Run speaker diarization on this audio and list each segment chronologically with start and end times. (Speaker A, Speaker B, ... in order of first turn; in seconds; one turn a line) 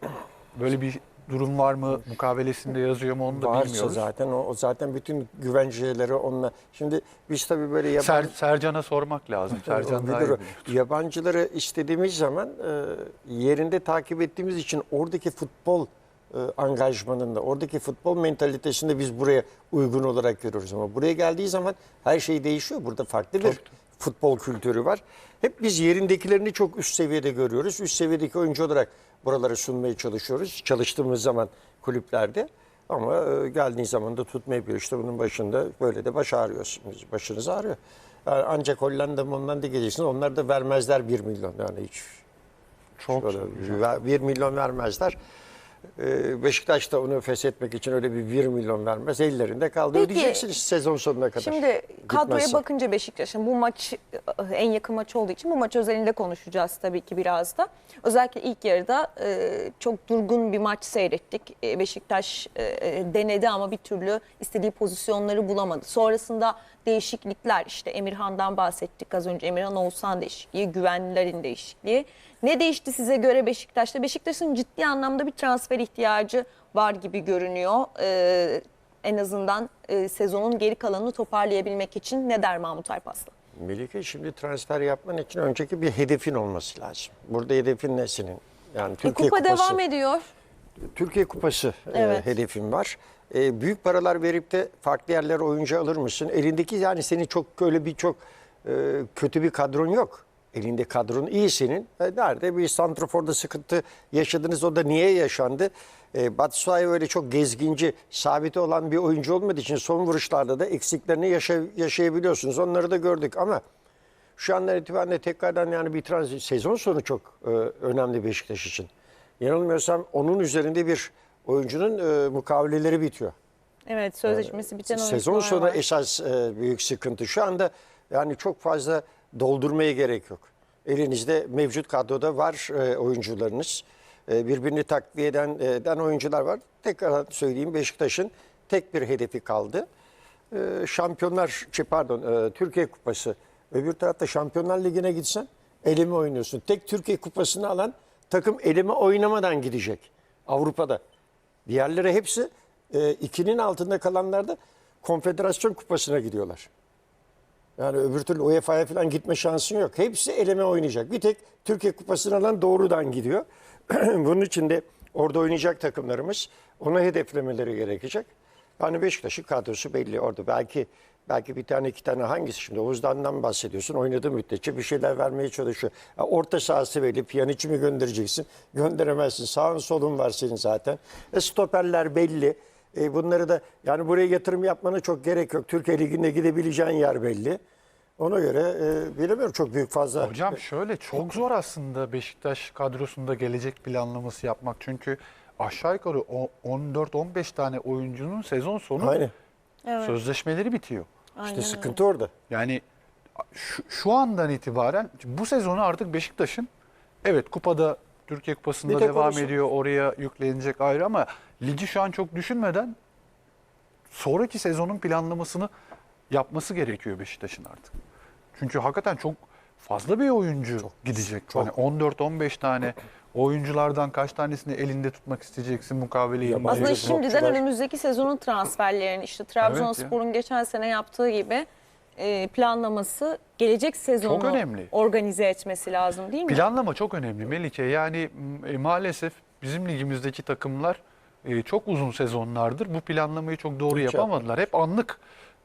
Speaker A: 0.5-4.1
Speaker B: 3.3-8.3
Speaker A: 8.0-10.8
Speaker B: 9.5-42.2
Speaker A: 43.0-44.0
Speaker B: 43.1-45.2
Speaker B: 46.0-52.6
Speaker C: 49.9-50.5
Speaker C: 51.4-83.3
Speaker B: 83.6-89.8
Speaker C: 89.0-90.3
Speaker B: 90.9-113.6
Speaker C: 91.9-92.3
Speaker B: 114.4-118.9
Speaker B: 119.4-123.3
Speaker C: 123.9-125.8
Speaker B: 124.3-139.9
Speaker B: 140.5-151.0
Speaker B: 151.7-156.7
Speaker B: 157.8-187.6
Speaker B: 188.2-190.4
Speaker A: 190.2-199.2
Speaker B: 199.0-199.3
Speaker C: 199.8-200.2
Speaker A: 200.0-201.1
Speaker C: 201.4-202.0
Speaker B: 201.4-202.3
Speaker A: 202.5-202.8
Speaker A: 203.5-206.7
Speaker A: 207.2-212.9
Speaker B: 208.9-209.6
Speaker A: 214.1-215.7
Speaker A: 216.3-217.9
Speaker A: 218.6-227.6
Speaker B: 226.4-227.6
Speaker C: 226.7-231.7
Speaker A: 229.6-230.2
Speaker C: 232.2-236.7
Speaker A: 234.2-234.9
Speaker A: 236.5-245.2
Speaker B: 243.9-244.3